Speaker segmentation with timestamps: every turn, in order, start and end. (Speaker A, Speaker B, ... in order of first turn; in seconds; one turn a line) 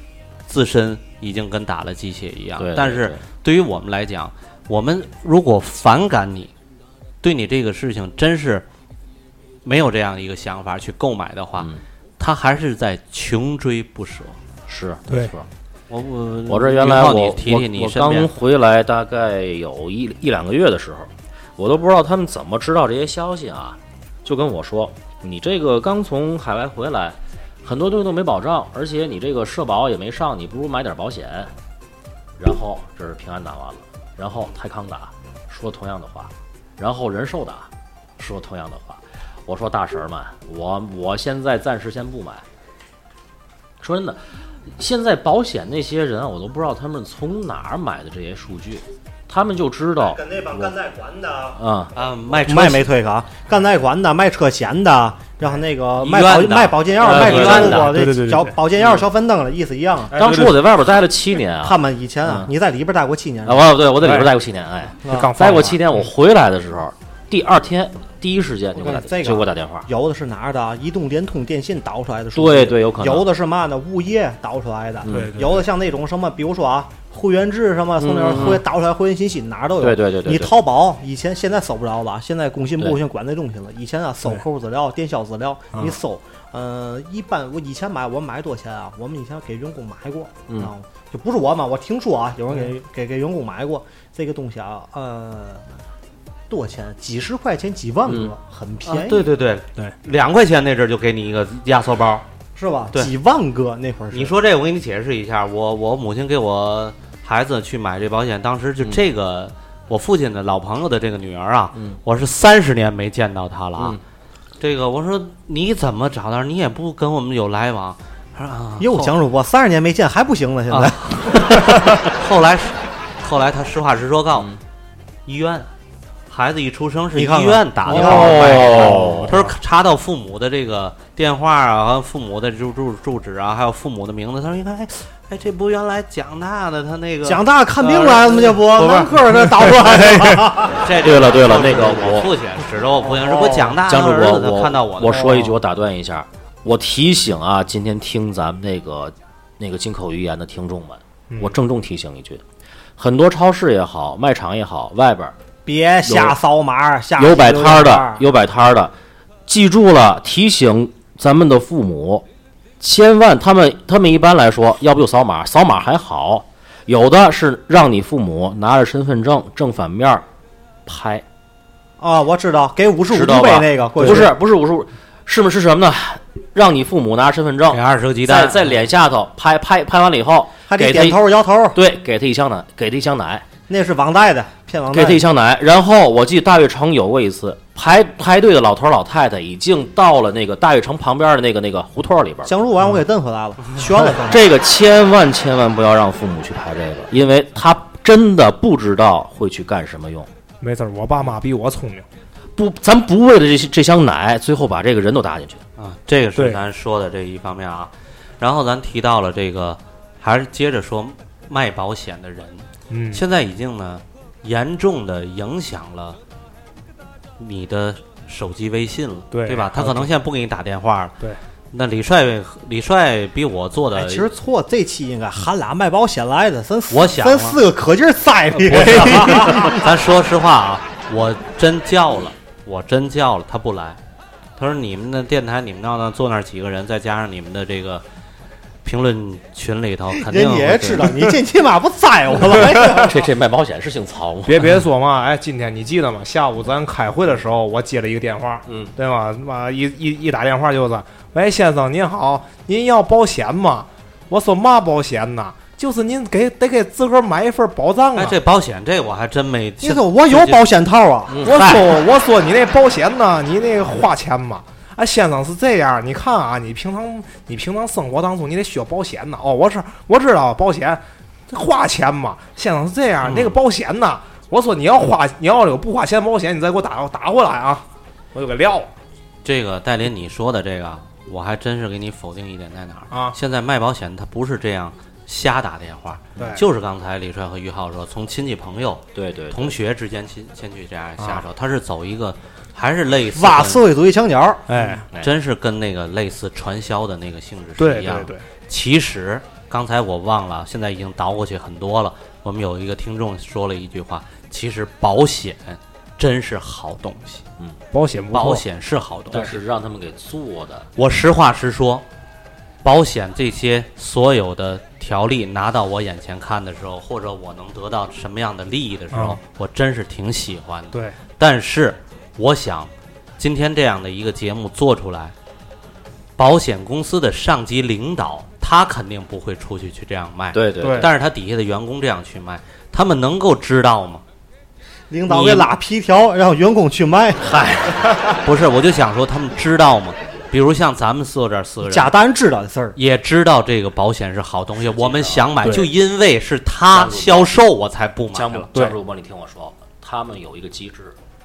Speaker A: 0.5-6.5
Speaker B: 2.6-3.2
Speaker A: 7.2-8.7
Speaker A: 9.6-14.4
Speaker B: 14.7-15.5
Speaker A: 15.9-18.3
Speaker B: 16.5-31.5
Speaker B: 32.4-42.4
Speaker B: 43.8-44.2
Speaker B: 44.7-50.7
Speaker C: 50.0-51.6
Speaker B: 51.5-51.9
Speaker A: 51.9-52.9
Speaker C: 52.4-60.1
Speaker A: 56.0-57.9
Speaker B: 57.0-57.9
Speaker D: 57.4-58.5
Speaker B: 60.1-62.5
Speaker D: 60.1-60.6
Speaker C: 61.6-63.7
Speaker B: 63.4-69.9
Speaker D: 64.0-64.3
Speaker D: 65.0-66.1
Speaker C: 65.0-65.3
Speaker C: 68.8-95.6
Speaker B: 72.3-73.2
Speaker B: 75.0-75.3
Speaker D: 75.1-75.7
Speaker B: 78.0-78.6
Speaker B: 79.8-80.5
Speaker C: 96.5-99.3
Speaker B: 98.1-98.3
Speaker A: 98.8-102.2
Speaker C: 102.5-104.3
Speaker A: 104.1-114.0
Speaker B: 111.7-112.0
Speaker A: 114.6-119.1
Speaker C: 118.8-121.4
Speaker A: 120.7-121.6
Speaker A: 122.1-124.5
Speaker A: 125.2-125.7
Speaker A: 126.3-139.2
Speaker C: 127.1-129.3
Speaker B: 127.9-129.3
Speaker C: 137.2-140.8
Speaker A: 140.6-145.3
Speaker B: 141.0-142.3
Speaker C: 143.1-143.7
Speaker B: 143.8-152.4
Speaker D: 151.3-151.6
Speaker B: 153.0-155.3
Speaker C: 155.7-158.2
Speaker B: 156.0-156.3
Speaker B: 157.2-158.9
Speaker B: 159.5-162.2
Speaker B: 162.8-170.2
Speaker B: 170.8-171.2
Speaker C: 172.0-174.3
Speaker B: 173.1-181.2
Speaker A: 177.7-178.6
Speaker C: 180.7-181.8
Speaker B: 181.7-183.4
Speaker C: 183.7-185.2
Speaker B: 184.9-192.5
Speaker C: 192.4-194.5
Speaker B: 194.2-200.3
Speaker D: 200.6-202.1
Speaker B: 202.6-205.6
Speaker A: 205.8-216.2
Speaker D: 206.3-206.6
Speaker D: 212.9-213.2
Speaker A: 217.4-221.2
Speaker D: 219.3-220.1
Speaker A: 221.7-224.3
Speaker C: 223.9-229.9
Speaker A: 226.9-227.6
Speaker D: 228.6-229.8
Speaker A: 228.7-234.0
Speaker A: 234.6-238.0
Speaker A: 238.8-241.2
Speaker C: 240.2-243.2
Speaker B: 242.9-244.7
Speaker D: 244.4-258.4
Speaker B: 248.7-248.9
Speaker A: 258.1-260.7
Speaker C: 259.8-261.4
Speaker B: 261.3-261.9
Speaker D: 261.4-278.9
Speaker A: 273.2-273.6
Speaker A: 279.4-293.9
Speaker D: 286.4-286.6
Speaker B: 289.1-289.8
Speaker D: 291.2-291.4
Speaker C: 293.3-294.6
Speaker D: 294.7-295.0
Speaker A: 295.2-307.5
Speaker D: 297.8-298.4
Speaker D: 307.9-308.6
Speaker A: 308.3-309.6
Speaker B: 309.3-310.9
Speaker A: 310.9-312.0
Speaker A: 312.8-325.3
Speaker D: 319.1-319.4
Speaker D: 320.9-321.2
Speaker A: 326.4-334.2
Speaker B: 330.5-331.1
Speaker D: 330.8-331.1
Speaker C: 335.1-337.5
Speaker A: 335.3-335.7
Speaker B: 337.4-338.1
Speaker A: 338.4-342.1
Speaker C: 341.8-342.9
Speaker A: 342.9-348.7
Speaker B: 344.8-345.5
Speaker D: 345.6-345.9
Speaker B: 346.9-347.5
Speaker B: 348.3-351.1